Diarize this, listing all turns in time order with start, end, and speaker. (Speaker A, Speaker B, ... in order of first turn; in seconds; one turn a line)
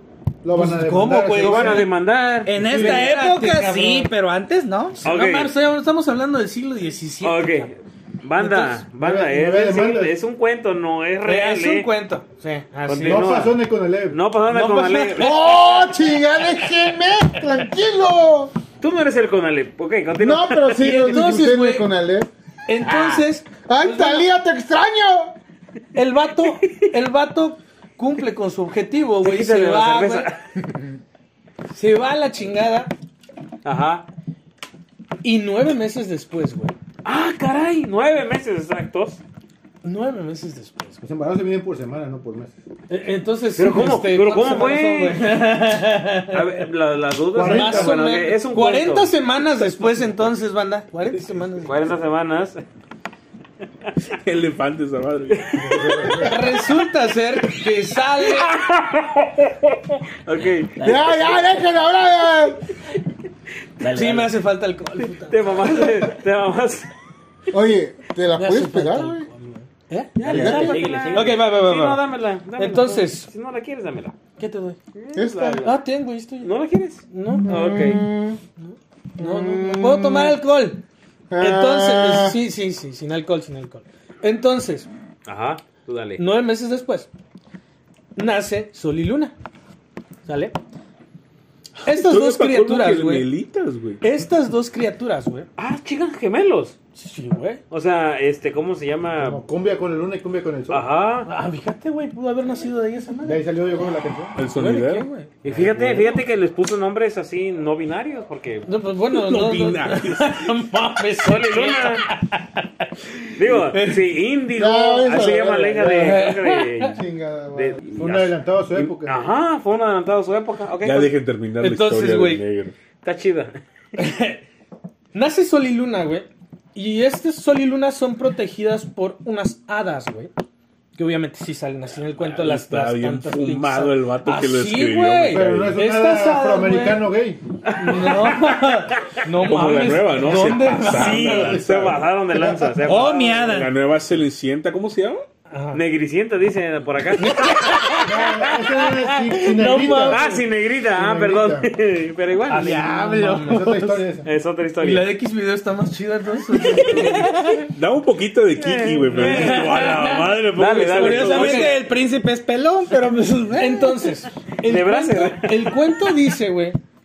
Speaker A: 0.4-1.9
Speaker B: 0.5-1.9
Speaker C: 1.4-2.9
Speaker D: 2.4-5.0
Speaker B: 2.6-4.1
Speaker A: 2.7-3.0
Speaker B: 5.0-7.7
Speaker C: 5.0-5.5
Speaker C: 7.2-11.9
Speaker B: 8.4-8.8
Speaker A: 9.0-10.1
Speaker B: 11.2-13.3
Speaker C: 12.9-13.6
Speaker A: 13.0-14.2
Speaker C: 14.1-15.3
Speaker B: 14.5-15.6
Speaker E: 15.2-18.5
Speaker C: 18.8-21.0
Speaker E: 20.2-22.3
Speaker B: 20.8-21.9
Speaker B: 22.7-24.3
Speaker E: 23.7-25.4
Speaker B: 25.9-30.3
Speaker C: 29.2-30.4
Speaker B: 31.7-32.9
Speaker C: 33.6-34.0
Speaker B: 35.2-36.7
Speaker C: 37.0-39.2
Speaker B: 39.8-41.0
Speaker A: 41.0-42.6
Speaker B: 42.9-46.6
Speaker C: 43.6-45.2
Speaker C: 46.3-49.1
Speaker A: 47.3-48.1
Speaker B: 47.4-51.8
Speaker C: 51.6-52.6
Speaker F: 54.1-56.1
Speaker C: 55.3-56.2
Speaker B: 56.2-58.5
Speaker C: 58.3-59.6
Speaker C: 60.2-60.7
Speaker G: 60.8-61.6
Speaker E: 60.8-62.6
Speaker G: 63.8-64.3
Speaker B: 63.9-65.4
Speaker C: 65.3-66.9
Speaker E: 67.5-69.3
Speaker B: 68.3-72.0
Speaker C: 70.2-74.1
Speaker E: 70.2-70.9
Speaker G: 70.2-71.4
Speaker B: 72.5-73.3
Speaker B: 74.4-74.8
Speaker C: 74.9-75.8
Speaker E: 75.1-75.7
Speaker B: 75.6-76.5
Speaker C: 76.4-78.0
Speaker B: 77.1-77.5
Speaker E: 77.4-78.4
Speaker B: 78.6-80.8
Speaker E: 79.2-80.4
Speaker E: 81.3-82.4
Speaker B: 81.4-84.9
Speaker C: 85.2-86.2
Speaker B: 86.2-87.1
Speaker B: 88.2-89.3
Speaker B: 90.2-90.5
Speaker B: 91.8-93.3
Speaker F: 91.9-94.0
Speaker B: 94.0-95.5
Speaker C: 95.6-96.8
Speaker B: 96.9-97.6
Speaker C: 97.7-99.4
Speaker A: 99.2-100.9
Speaker C: 100.7-101.3
Speaker B: 101.2-103.5
Speaker A: 103.2-104.4
Speaker F: 104.3-106.2
Speaker B: 104.5-105.3
Speaker C: 105.4-108.7
Speaker B: 108.7-112.9
Speaker F: 109.1-110.6
Speaker C: 111.2-112.0
Speaker C: 113.3-117.0
Speaker B: 113.5-114.0
Speaker E: 114.5-116.2
Speaker B: 116.0-117.0
Speaker E: 116.9-117.8
Speaker C: 117.5-121.1
Speaker A: 117.9-119.3
Speaker F: 120.8-122.7
Speaker B: 121.6-122.4
Speaker C: 123.0-123.6
Speaker B: 124.0-124.4
Speaker B: 125.1-130.3
Speaker B: 130.9-137.1
Speaker F: 132.3-135.8
Speaker A: 135.3-137.4
Speaker C: 137.6-138.7
Speaker B: 137.8-141.6
Speaker F: 139.4-142.1
Speaker C: 140.9-143.5
Speaker A: 141.3-142.1
Speaker D: 142.8-143.7
Speaker F: 143.4-145.2
Speaker B: 145.5-145.8
Speaker C: 145.7-147.9
Speaker B: 147.2-150.4
Speaker A: 148.0-150.3
Speaker C: 150.1-152.8
Speaker A: 150.9-151.7
Speaker B: 152.5-153.9
Speaker D: 152.5-154.1
Speaker A: 153.4-154.3
Speaker C: 154.2-155.1
Speaker B: 154.8-157.5
Speaker C: 156.8-157.3
Speaker F: 157.7-161.5
Speaker C: 158.6-161.8
Speaker B: 159.1-160.3
Speaker B: 160.9-161.7
Speaker D: 161.0-164.1
Speaker B: 163.6-166.8
Speaker C: 164.6-165.8